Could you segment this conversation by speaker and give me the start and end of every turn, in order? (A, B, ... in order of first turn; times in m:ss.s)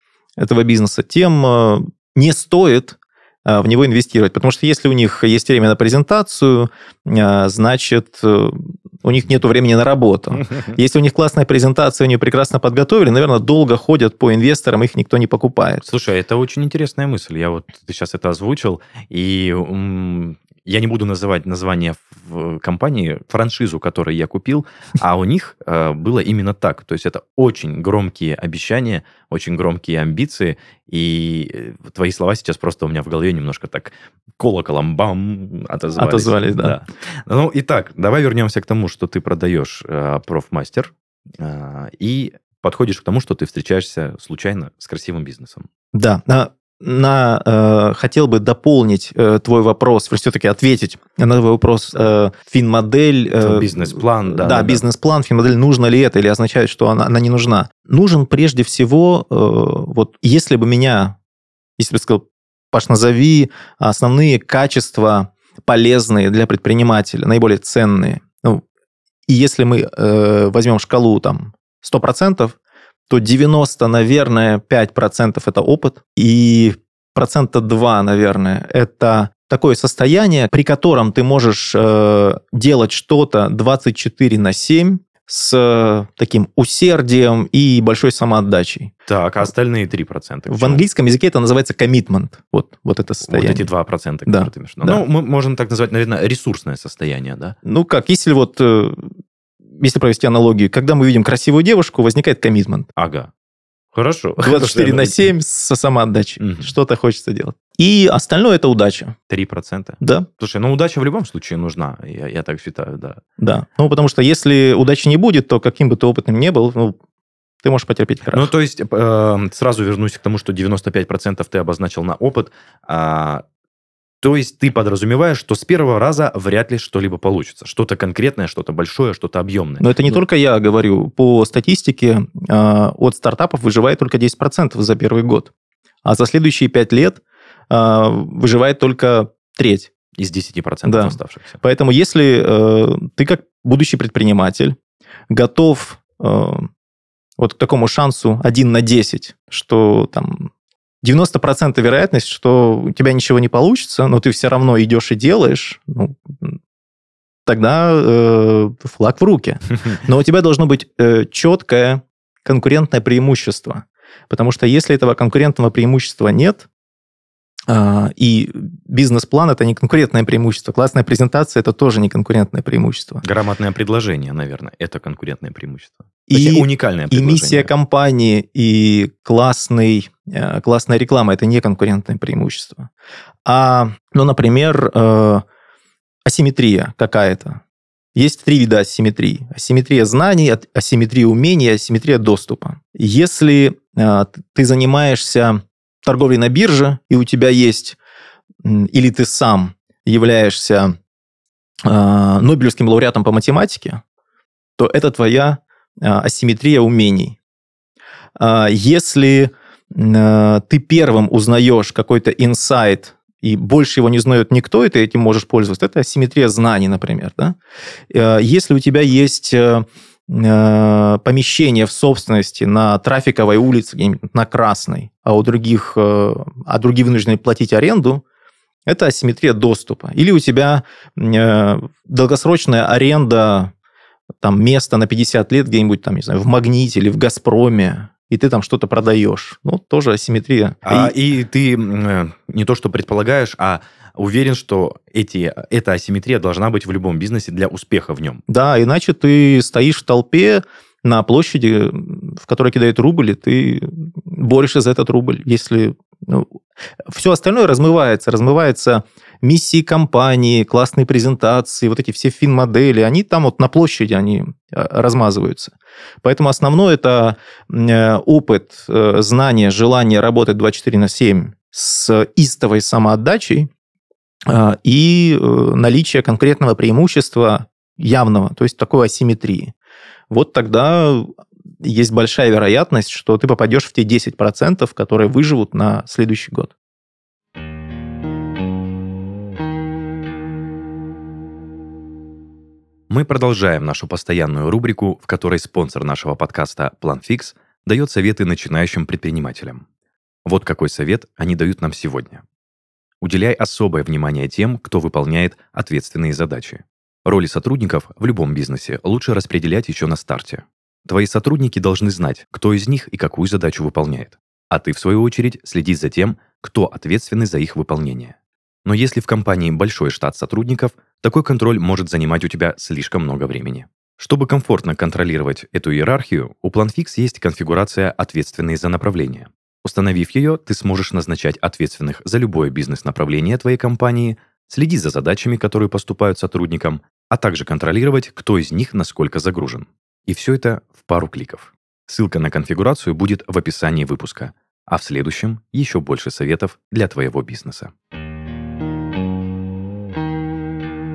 0:00.4-0:15.8 A
0:15.8-0:45.6 B
0:36.0-0:36.8 A
0:45.9-1:01.2 A
0:53.4-0:54.8 B
1:01.8-1:08.6 A
1:09.3-1:12.6 A
1:13.1-1:28.9 A
1:29.1-1:30.8 B
1:30.5-1:33.7 A
1:33.2-1:37.6 B
1:34.2-1:35.0 A
1:37.6-1:39.1 A
1:39.8-1:42.9 A
1:43.0-1:43.3 B
1:43.9-1:45.2 B
1:44.4-1:49.1 A
1:46.4-1:46.7 B
1:49.3-1:53.2 B
1:50.0-1:50.3 A
1:53.4-1:56.9 A
1:57.6-1:58.5 A
1:58.3-2:03.4 B
2:04.2-2:09.9 B
2:09.8-2:15.5 A
2:16.0-2:19.9 A
2:20.2-2:21.6 B
2:20.8-2:24.8 A
2:25.3-2:26.7 A
2:27.4-2:30.5 A
2:31.0-2:36.6 A
2:37.4-2:46.7 A
2:47.7-2:53.2 A
2:53.2-2:57.7 B
2:56.3-3:02.9 A
3:03.4-3:05.4 A
3:06.2-3:07.6 A
3:08.1-3:18.0 A
3:18.6-3:20.9 A
3:21.8-3:24.0 A
3:24.8-3:27.4 A
3:28.4-3:37.6 A
3:38.1-3:48.2 A
3:48.8-3:53.7 A
3:54.4-4:01.1 A
4:00.8-4:08.4 B
4:08.5-4:16.5 A
4:17.0-4:33.7 A
4:34.5-4:39.7 A
4:40.3-4:46.7 A
4:53.1-4:59.8 B
5:00.4-5:02.4 B
5:03.2-5:47.9 B